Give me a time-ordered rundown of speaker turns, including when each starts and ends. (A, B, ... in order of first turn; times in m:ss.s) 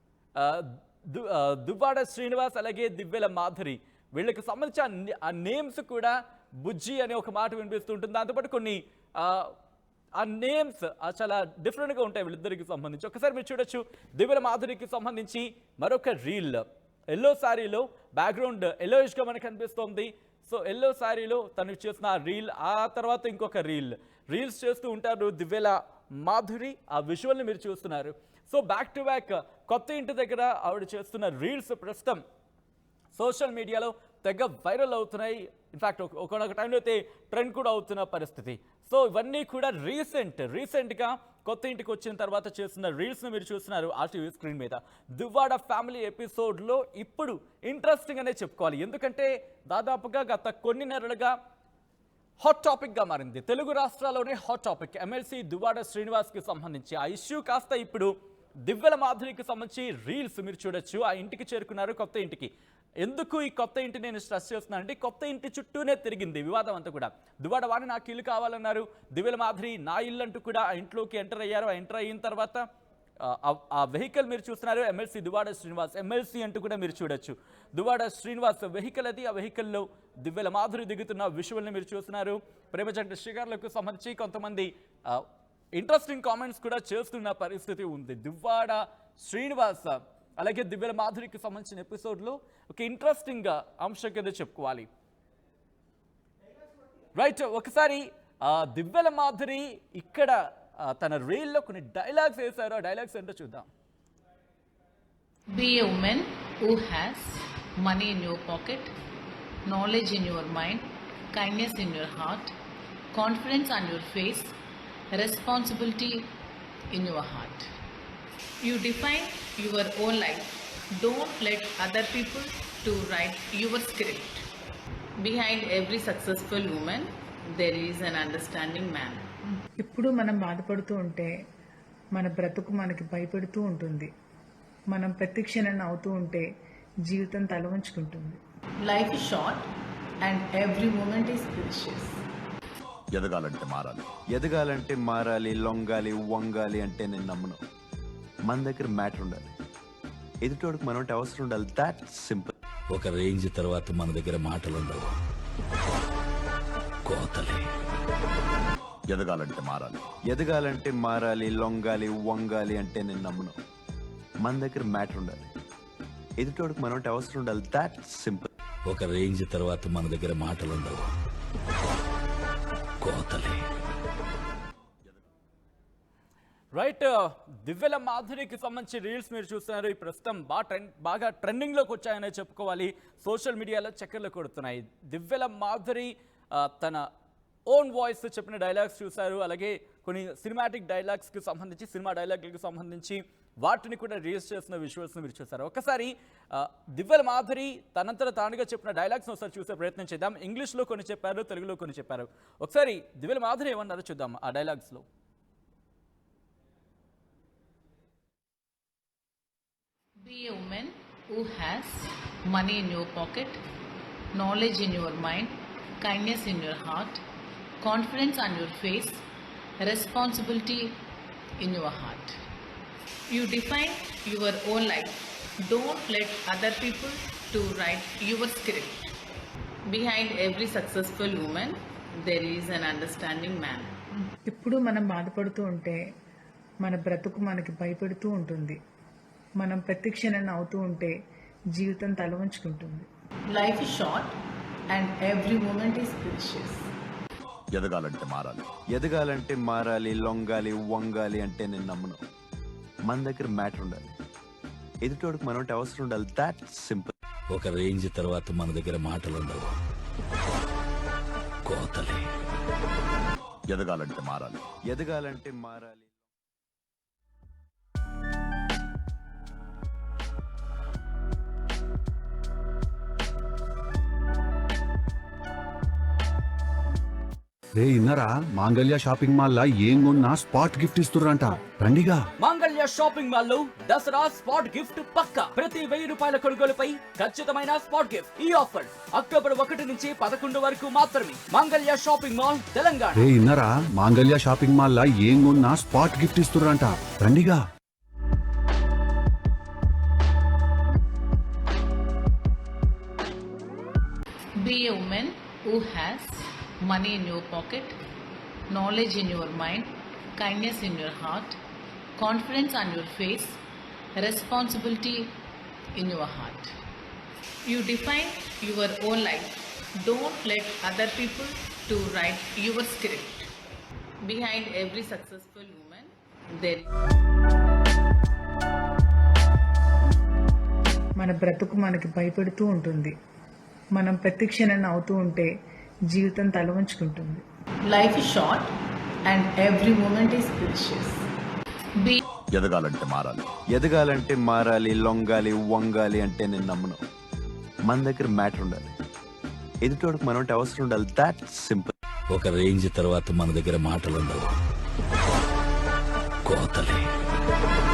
0:00.4-0:09.5 A
0:10.2-0:32.2 A
0:33.2-0:51.3 A
0:52.4-0:58.1 A
0:58.6-1:02.5 A
1:03.0-1:12.6 A
1:13.2-1:34.9 A
1:37.2-1:43.7 A
1:45.5-1:48.9 B
1:49.7-1:52.5 B
1:53.1-1:54.5 B
1:55.2-1:56.3 B
1:56.9-1:57.6 B
1:58.6-2:04.4 B
2:05.2-2:09.3 B
2:09.8-2:11.3 C
2:12.2-2:14.1 C
2:14.9-2:16.4 C
2:17.1-2:18.4 C
2:18.9-2:19.6 B
2:20.2-2:22.2 B
2:23.2-2:27.6 D
2:28.5-2:29.5 D
2:30.4-2:32.5 D
2:32.9-2:35.1 E
2:37.0-2:37.7 E
2:39.1-2:43.6 D
2:44.4-2:45.5 D
2:46.4-2:48.5 D
2:48.9-2:51.0 E
2:53.0-2:53.6 E
2:56.7-3:07.1 A
3:07.7-3:25.0 A
3:30.2-3:33.6 B
3:34.3-3:37.2 B
3:37.8-3:39.2 B
3:39.8-3:41.0 B
3:41.6-3:42.3 B
3:43.3-3:49.0 B
3:49.9-3:53.9 B
3:54.5-3:56.0 C
3:56.8-3:58.8 C
3:59.6-4:01.1 C
4:01.8-4:03.1 C
4:03.5-4:04.3 B
4:04.9-4:06.8 B
4:07.7-4:12.2 D
4:13.1-4:14.0 D
4:15.0-4:17.1 D
4:17.5-4:19.7 E
4:21.6-4:22.3 E
4:23.7-4:26.1 D
4:37.7-4:42.3 F
4:42.4-4:53.3 A
4:53.2-4:57.6 F
5:04.6-5:08.0 B
5:08.7-5:11.6 B
5:12.2-5:13.6 B
5:14.2-5:15.4 B
5:16.0-5:16.7 B
5:17.7-5:23.5 B
5:24.2-5:26.9 B
5:31.2-5:33.1 C
5:34.0-5:35.5 C
5:36.1-5:37.4 C
5:37.9-5:38.7 B
5:39.3-5:41.2 B
5:42.6-5:47.0 D
5:47.9-5:48.9 D
5:49.8-5:51.9 D
5:52.3-5:54.5 E
5:56.4-5:57.1 E